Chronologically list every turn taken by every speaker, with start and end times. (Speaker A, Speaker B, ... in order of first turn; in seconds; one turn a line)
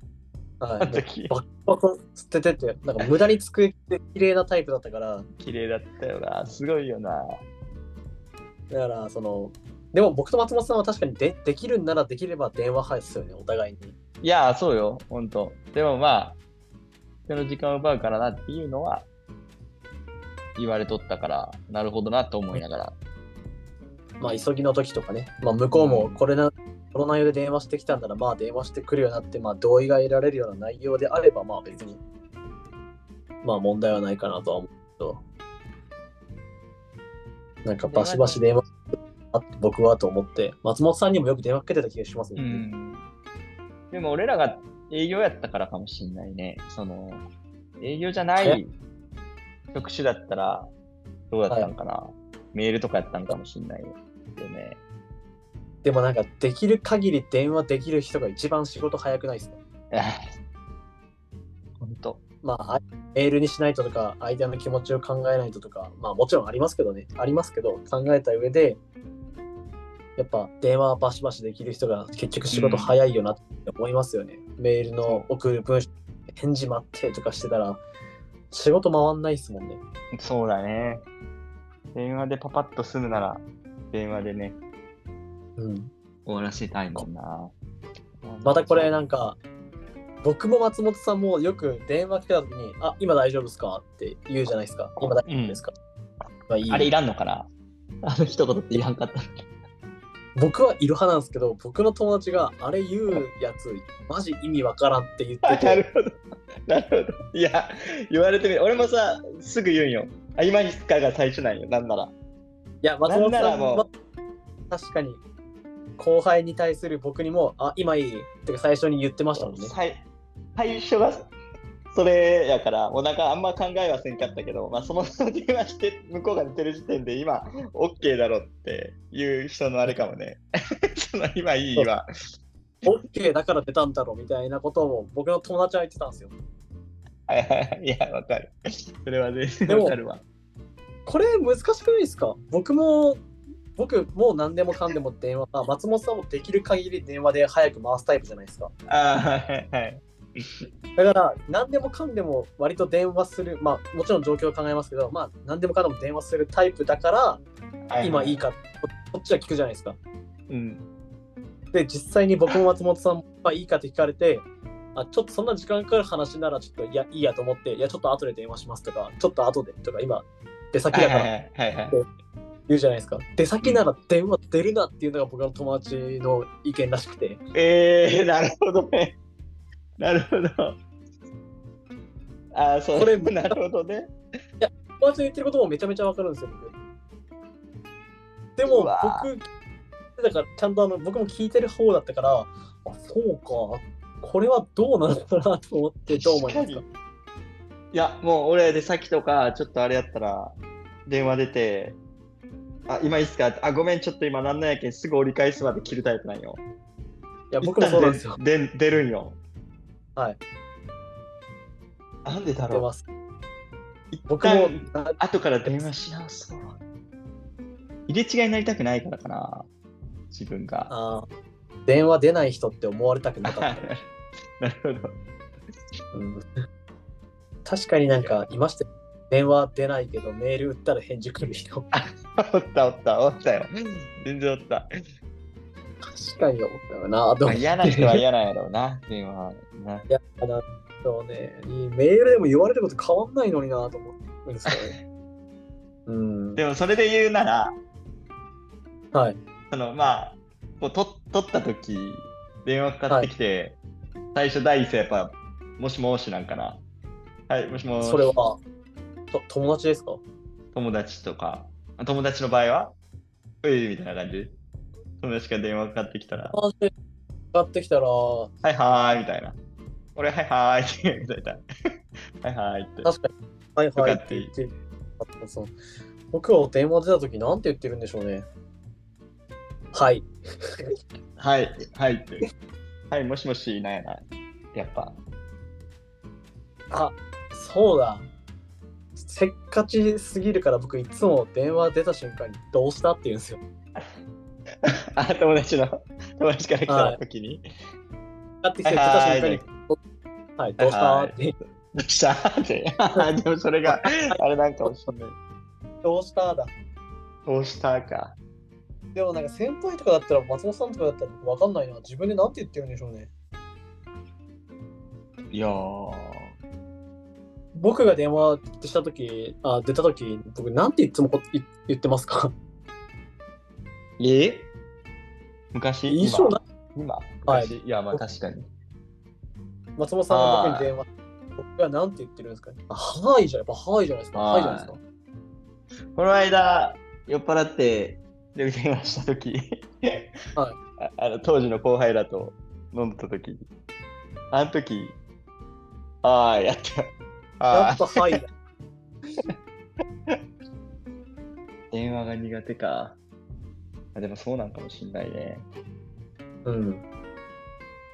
Speaker A: 0.6-5.3
Speaker B: 0.8-1.3
Speaker B: 3.0-3.2
Speaker B: 5.4-7.4
Speaker A: 8.7-14.0
Speaker B: 14.2-16.4
Speaker B: 17.3-19.1
Speaker B: 20.6-22.9
Speaker A: 24.2-32.0
Speaker B: 25.7-26.2
Speaker A: 33.4-35.2
Speaker A: 37.6-38.7
Speaker B: 37.8-38.4
Speaker A: 39.3-42.7
Speaker B: 42.4-43.1
Speaker B: 43.9-47.3
Speaker B: 47.8-48.8
Speaker A: 48.4-48.6
Speaker B: 49.7-50.7
Speaker B: 51.3-54.8
Speaker A: 55.8-59.6
Speaker B: 59.9-60.3
Speaker B: 61.8-62.2
Speaker A: 62.4-68.8
Speaker A: 70.2-77.8
Speaker B: 72.5-73.0
Speaker A: 78.5-79.8
Speaker B: 80.1-81.0
Speaker B: 82.0-84.6
Speaker A: 85.6-85.9
Speaker B: 86.3-87.5
Speaker B: 88.2-88.9
Speaker A: 88.4-89.4
Speaker A: 90.2-95.7
Speaker B: 95.0-95.6
Speaker A: 96.5-96.9
Speaker B: 96.7-97.5
Speaker B: 98.0-99.5
Speaker A: 100.4-105.8
Speaker B: 105.4-112.1
Speaker A: 112.8-113.9
Speaker B: 113.1-113.9
Speaker A: 114.7-115.2
Speaker A: 116.0-119.7
Speaker B: 119.3-120.0
Speaker B: 120.6-121.3
Speaker B: 121.9-130.4
Speaker B: 131.0-132.1
Speaker A: 132.8-136.3
Speaker B: 137.3-140.2
Speaker A: 139.7-140.0
Speaker A: 141.1-143.2
Speaker A: 143.8-148.7
Speaker B: 148.9-150.7
Speaker A: 151.0-157.4
Speaker B: 157.9-158.4
Speaker A: 158.0-160.0
Speaker B: 160.5-160.8
Speaker A: 161.7-171.3
Speaker B: 170.9-172.0
Speaker A: 172.7-177.4
Speaker B: 177.5-179.2
Speaker B: 180.0-180.8
Speaker B: 182.5-184.1
Speaker A: 182.9-183.6
Speaker A: 184.6-186.8
Speaker A: 188.6-189.5
Speaker B: 188.7-189.3
Speaker A: 190.2-196.9
Speaker B: 196.1-196.8
Speaker B: 197.9-200.6
Speaker B: 201.1-202.0
Speaker B: 202.9-206.6
Speaker A: 207.5-208.4
Speaker B: 207.6-209.4
Speaker B: 212.2-212.9
Speaker A: 212.7-213.1
Speaker B: 214.1-216.8
Speaker A: 214.3-215.9
Speaker B: 218.1-219.7
Speaker B: 220.3-220.9
Speaker A: 220.9-221.3
Speaker A: 221.9-223.9
Speaker B: 223.5-224.0
Speaker B: 224.6-225.2
Speaker A: 226.1-226.4
Speaker A: 227.7-231.9
Speaker B: 228.1-228.5
Speaker B: 231.9-234.9
Speaker A: 236.0-238.2
Speaker B: 237.4-240.1
Speaker A: 240.1-245.0
Speaker B: 244.7-245.0
Speaker A: 246.1-246.6
Speaker B: 246.6-247.8
Speaker A: 249.1-249.4
Speaker B: 249.7-253.8
Speaker B: 254.3-256.8
Speaker B: 257.5-258.3
Speaker A: 258.0-258.6
Speaker A: 259.3-260.2
Speaker B: 260.7-262.9
Speaker B: 263.6-264.6
Speaker B: 265.2-266.6
Speaker A: 266.5-266.9
Speaker A: 267.5-268.5
Speaker B: 268.6-269.6
Speaker B: 270.2-271.6
Speaker B: 272.4-273.1
Speaker A: 273.1-275.8
Speaker B: 274.0-274.5
Speaker A: 276.3-278.5
Speaker A: 279.9-280.9
Speaker B: 281.4-282.4
Speaker B: 283.1-284.2
Speaker B: 284.7-285.2
Speaker A: 286.9-288.3
Speaker A: 289.2-293.6
Speaker B: 294.9-297.6
Speaker A: 296.9-297.2
Speaker A: 298.6-300.0
Speaker B: 298.9-299.7
Speaker A: 300.6-301.5
Speaker B: 300.8-305.4
Speaker A: 303.9-304.2
Speaker A: 306.0-306.7
Speaker B: 307.5-308.4
Speaker A: 309.1-313.3
Speaker B: 315.5-316.5
Speaker A: 317.8-322.5
Speaker B: 324.2-324.7
Speaker B: 325.7-328.7
Speaker A: 326.1-326.6
Speaker A: 327.5-328.2
Speaker A: 330.0-335.0
Speaker B: 330.3-330.9
Speaker B: 334.3-334.9
Speaker B: 336.1-340.4
Speaker B: 341.0-343.6
Speaker B: 344.5-345.2
Speaker B: 346.2-347.1
Speaker B: 347.6-348.4
Speaker A: 347.7-348.5
Speaker B: 351.9-353.2
Speaker B: 354.1-355.6
Speaker A: 356.6-357.0